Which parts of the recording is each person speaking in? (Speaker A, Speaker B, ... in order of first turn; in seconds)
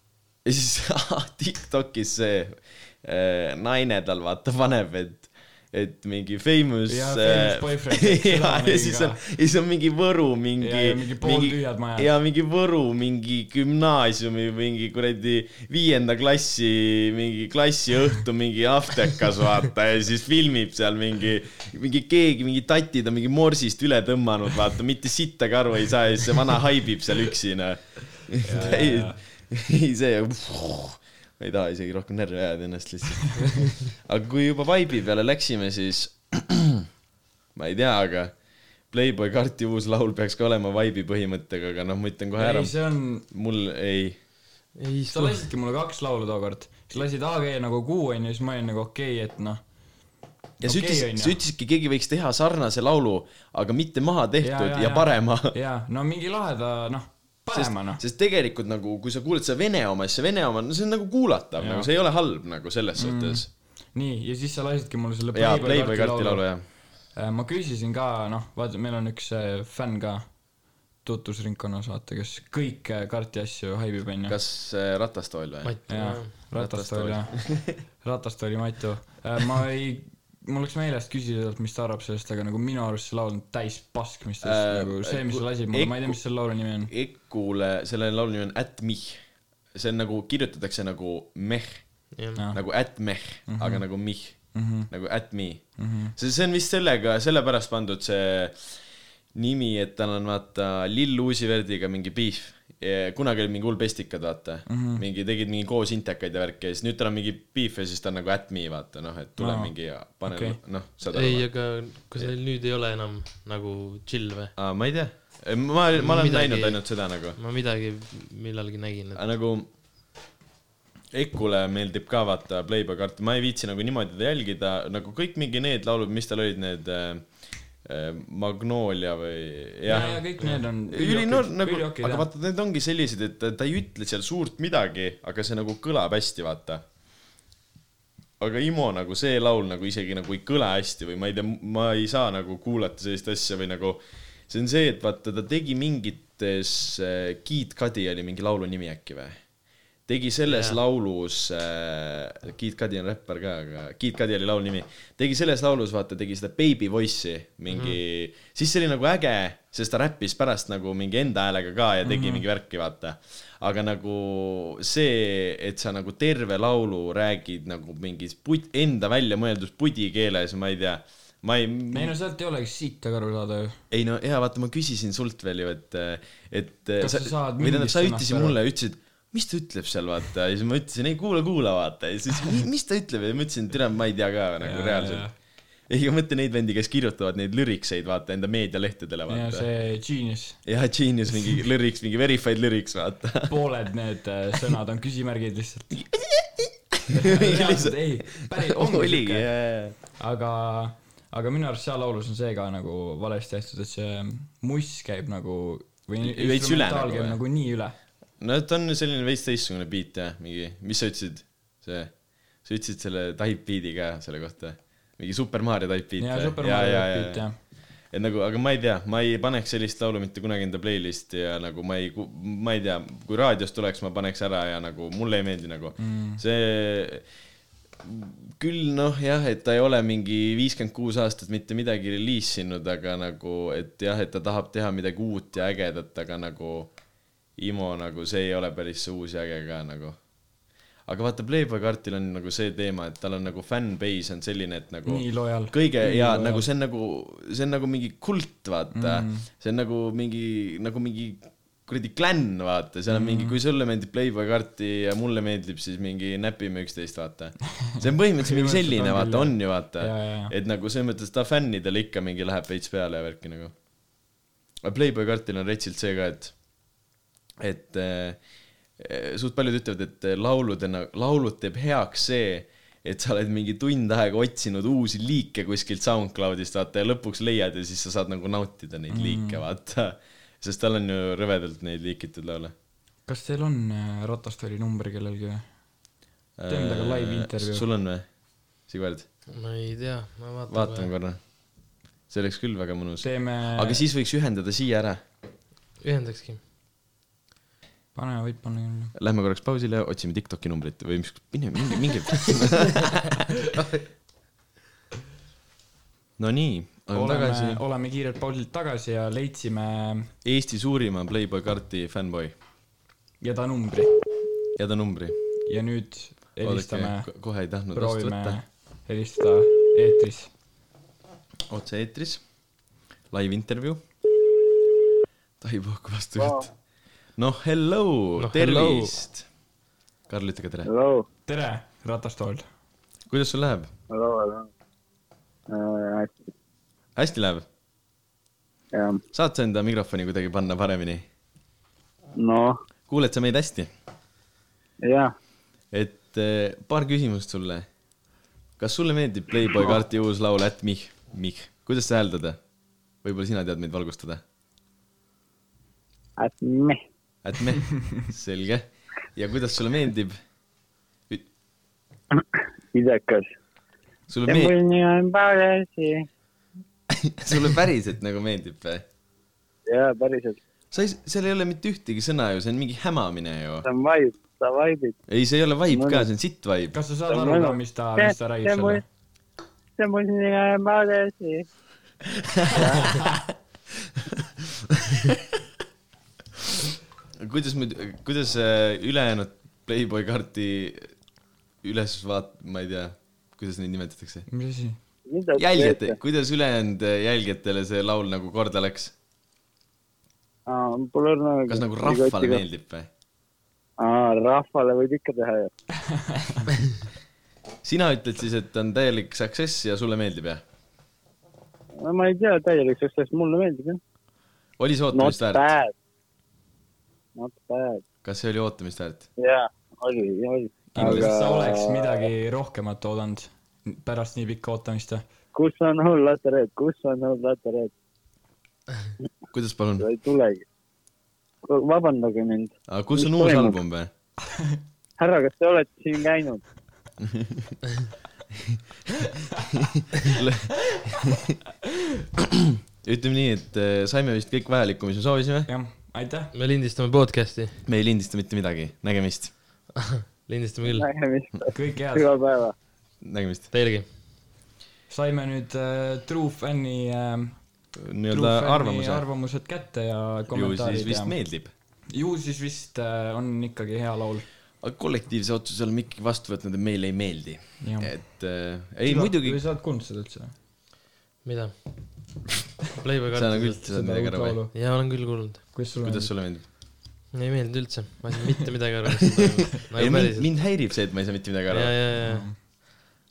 Speaker A: 0.5-36.9, 37.5-38.3, 38.9-42.8, 43.3-44.2, 50.6-55.5, 57.5-63.5, 65.3-66.6, 74.3-77.8, 84.4-86.2, 86.9-89.2, 89.7-91.8, 92.5-94.4, 94.9-98.8, 99.3-111.5, 114.6-117.4, 119.2-119.7, 121.1-127.3, 127.8-136.8, 138.4-149.4, 150.1-172.1, 173.9-185.2, 185.9-189.7, 190.7-193.5, 195.9-200.0, 206.2-207.4, 208.4-212.1, 212.6-217.5, 218.1-227.2, 228.0-236.9, 237.6-240.2, 241.1-263.7, 264.8-266.5, 267.6-268.4, 269.0-282.7, 286.6-288.3, 288.9-289.3, 290.7-291.4, 292.3-295.2, 299.2-303.4, 306.4-307.8, 310.4-312.5, 314.8-315.4, 316.6-318.6, 321.7-322.4, 323.3-324.0, 325.6-326.7, 327.4-329.5, 330.3-330.9, 333.3-333.9, 337.2-337.7, 339.3-341.2, 343.1-343.9, 345.9-347.9, 348.8-352.6, 353.2-354.4, 357.4-358.9, 359.4-360.4, 364.3-364.7, 367.1-369.1, 370.9-373.9, 375.3-376.9, 382.4-383.5, 384.1-385.4, 387.4-391.1, 391.8-394.5, 395.6-399.1, 401.7-403.1, 407.8-410.6, 414.8-415.6, 418.2-419.3, 421.0-421.3, 429.5-430.1, 432.9-434.1, 437.2-437.8, 438.6-438.8, 439.7-441.6, 442.4-445.7, 447.9-449.5, 453.2-453.7, 457.9-459.2, 460.5-461.7, 464.8-469.6, 473.3-474.6, 476.0-476.6, 479.8-482.0
Speaker B: 6.9-9.2, 10.6-12.1, 28.4-29.2, 42.4-43.3, 45.1-49.6, 50.6-51.4, 54.4-58.0, 61.6-61.9, 63.0-66.4, 67.2-70.3, 71.0-74.4, 75.9-77.5, 78.0-86.9, 92.4-92.6, 93.5-93.8, 94.5-94.9, 95.8-96.1, 104.7-105.0, 109.4-109.7, 110.2-110.6, 129.9-132.3, 162.0-162.4, 171.9-173.8, 177.0-178.6, 184.6-185.3, 189.3-190.6, 193.5-196.0, 197.1-199.5, 200.1-208.0, 216.2-217.6, 226.0-226.4, 245.1-246.7, 248.9-249.5, 253.1-253.6, 258.4-260.5, 279.1-279.6, 283.3-285.7, 286.7-287.9, 293.2-294.0, 298.1-299.1, 307.1-310.3, 313.4-314.1, 315.7-317.3, 317.9-320.5, 331.5-332.7, 376.9-379.0, 394.5-395.0, 406.1-406.7, 420.9-425.2, 445.7-446.5, 451.7-452.3, 455.1-457.6, 458.3-461.4, 462.1-464.5, 467.8-468.1, 469.1-470.5, 473.9-474.7, 475.7-476.3, 482.2-482.6
Speaker C: 44.8-45.5, 75.6-76.4, 92.1-92.4, 111.1-114.5, 116.0-116.8, 117.3-119.2, 150.5-150.8, 157.7-158.0, 289.5-291.1, 296.0-296.6, 328.4-329.1, 446.5-447.8, 450.0-451.1, 453.7-454.1, 471.4-472.4, 472.9-473.8, 474.7-475.7, 477.3-480.5, 481.7-482.5
Speaker D: 326.4-326.6, 330.9-331.3, 334.1-334.7, 335.7-336.4, 338.9-339.2, 342.4-342.8, 345.0-345.3, 356.4-357.0, 362.4-363.5, 364.5-366.2, 369.9-370.6, 373.9-375.2, 375.9-376.3, 377.3-379.0, 380.0-381.6, 382.7-383.3, 395.3-396.2, 400.7-402.6, 404.0-405.7, 412.0-414.0, 415.1-415.9, 417.4-418.0, 419.4-422.3, 425.5-427.9, 430.0-430.6, 431.6-433.8, 435.2-436.6, 450.9-452.7